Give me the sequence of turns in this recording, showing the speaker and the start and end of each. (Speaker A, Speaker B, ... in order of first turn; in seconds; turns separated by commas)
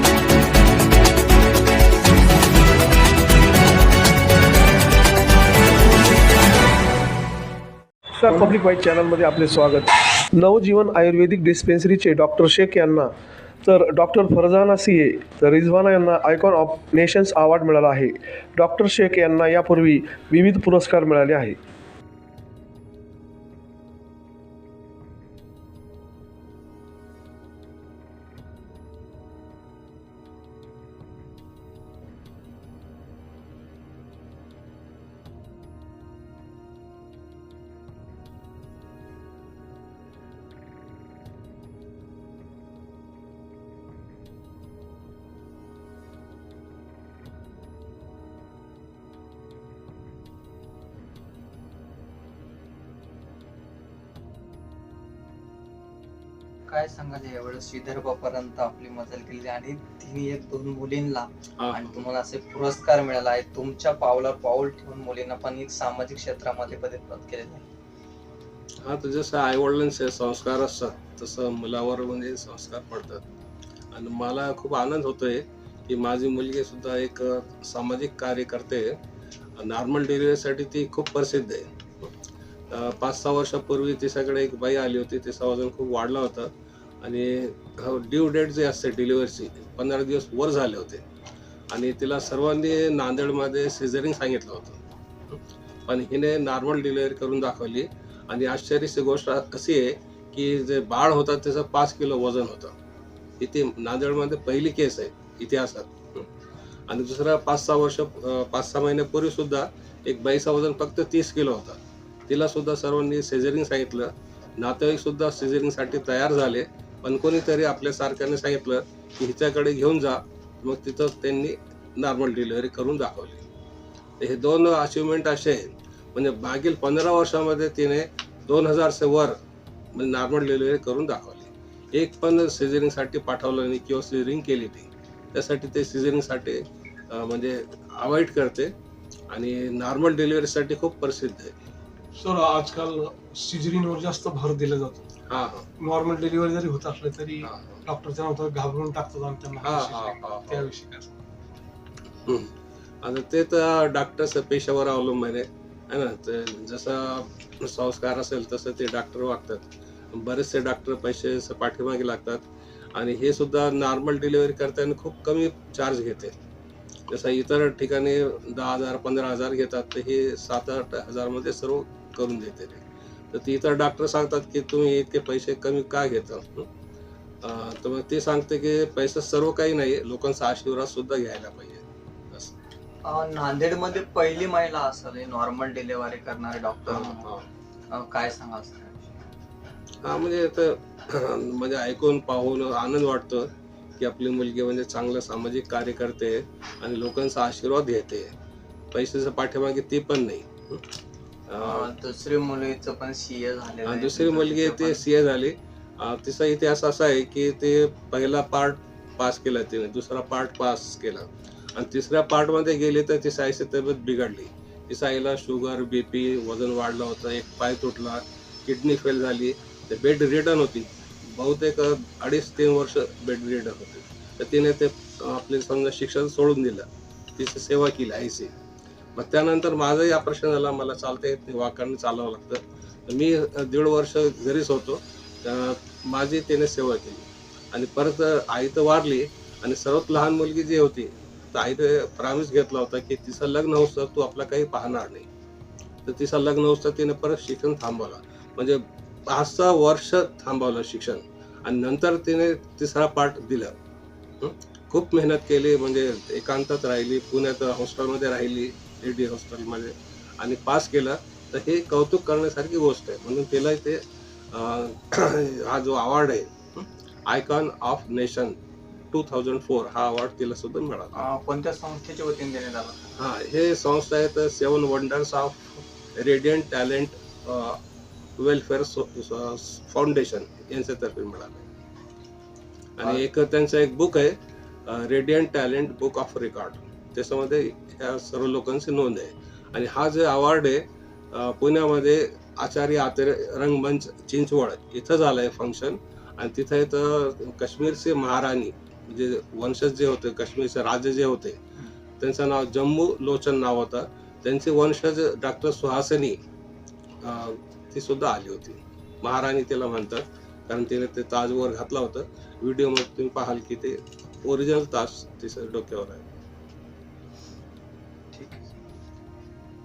Speaker A: 8.2-13.1, Speaker A: 13.6-21.6, Speaker B: 56.7-67.7, Speaker C: 61.6-62.0, Speaker C: 68.8-73.2, Speaker C: 73.9-79.0, Speaker C: 79.6-82.1, Speaker C: 82.7-91.0, Speaker C: 91.7-102.7, Speaker C: 103.4-106.3, Speaker C: 106.9-123.4, Speaker C: 124.2-129.4, Speaker C: 129.9-138.7, Speaker C: 139.3-141.5, Speaker D: 142.1-145.1, Speaker C: 145.3-145.7, Speaker D: 145.8-151.2, Speaker C: 147.4-147.8, Speaker C: 149.6-150.7, Speaker C: 152.2-166.3, Speaker C: 167.1-176.7, Speaker C: 177.4-182.6, Speaker B: 183.0-187.3, Speaker C: 186.9-187.4, Speaker B: 187.9-189.0, Speaker C: 190.0-198.3, Speaker C: 198.9-200.9, Speaker C: 201.5-201.9, Speaker B: 201.6-205.0, Speaker C: 203.8-228.5, Speaker C: 229.2-245.3, Speaker C: 246.1-253.8, Speaker C: 254.4-268.6, Speaker C: 269.1-271.2, Speaker B: 271.1-273.1, Speaker C: 273.2-277.8, Speaker C: 278.4-281.7, Speaker C: 283.0-301.6, Speaker C: 302.2-306.4, Speaker C: 307.2-316.3, Speaker B: 318.3-318.7